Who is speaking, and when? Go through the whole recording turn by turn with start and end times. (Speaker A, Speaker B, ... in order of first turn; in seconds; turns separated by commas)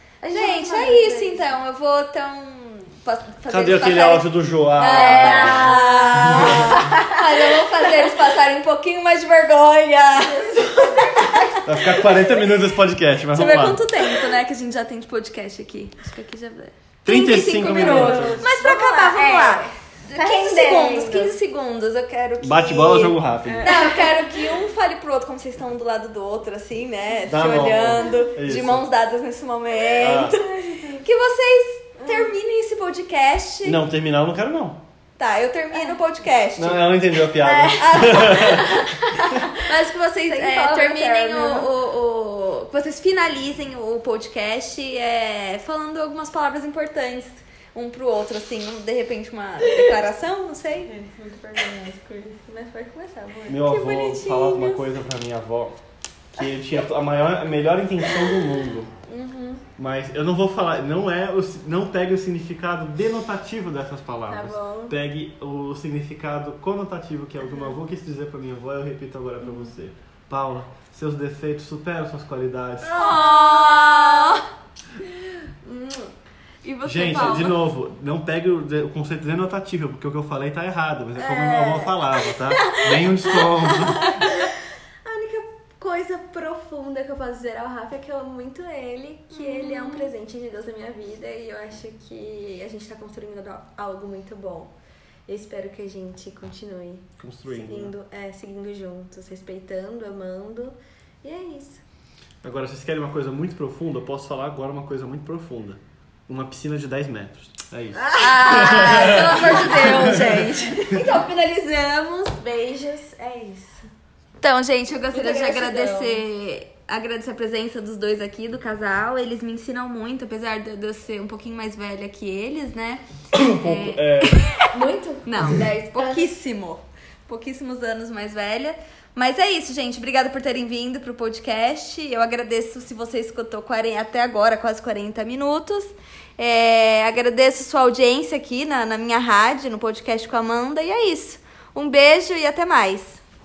Speaker A: 0.2-1.5, Speaker B: 0.3-12.3, Speaker C: 3.5-6.9, Speaker A: 4.8-8.1, Speaker A: 10.1-12.2, Speaker C: 11.7-13.8, Speaker B: 13.3-33.8, Speaker C: 17.1-18.4, Speaker A: 17.6-21.3, Speaker C: 22.4-23.7, Speaker A: 23.5-24.5, Speaker C: 27.3-28.9, Speaker C: 30.0-30.4, Speaker A: 32.0-32.3, Speaker C: 33.6-34.8, Speaker B: 35.2-37.0, Speaker C: 36.6-38.9, Speaker A: 37.4-41.7, Speaker B: 37.8-50.9, Speaker A: 49.6-50.0, Speaker A: 50.9-53.8, Speaker C: 53.5-55.8, Speaker B: 53.7-54.9, Speaker C: 56.3-58.9, Speaker B: 59.1-59.6, Speaker C: 59.8-73.0, Speaker A: 64.3-64.9, Speaker B: 69.4-69.7, Speaker A: 72.9-74.4, Speaker B: 72.9-74.4, Speaker A: 75.2-76.1, Speaker B: 76.6-77.6, Speaker C: 76.8-84.2, Speaker A: 77.1-77.5, Speaker B: 81.2-82.0, Speaker A: 82.5-84.5, Speaker A: 85.0-94.7, Speaker B: 89.3-90.1, Speaker A: 95.3-101.8, Speaker C: 97.2-97.9, Speaker C: 102.4-111.0, Speaker A: 107.9-113.9, Speaker B: 108.2-111.3, Speaker B: 114.4-124.7, Speaker A: 115.1-116.2, Speaker C: 123.3-124.4, Speaker A: 124.7-126.3, Speaker B: 125.3-143.2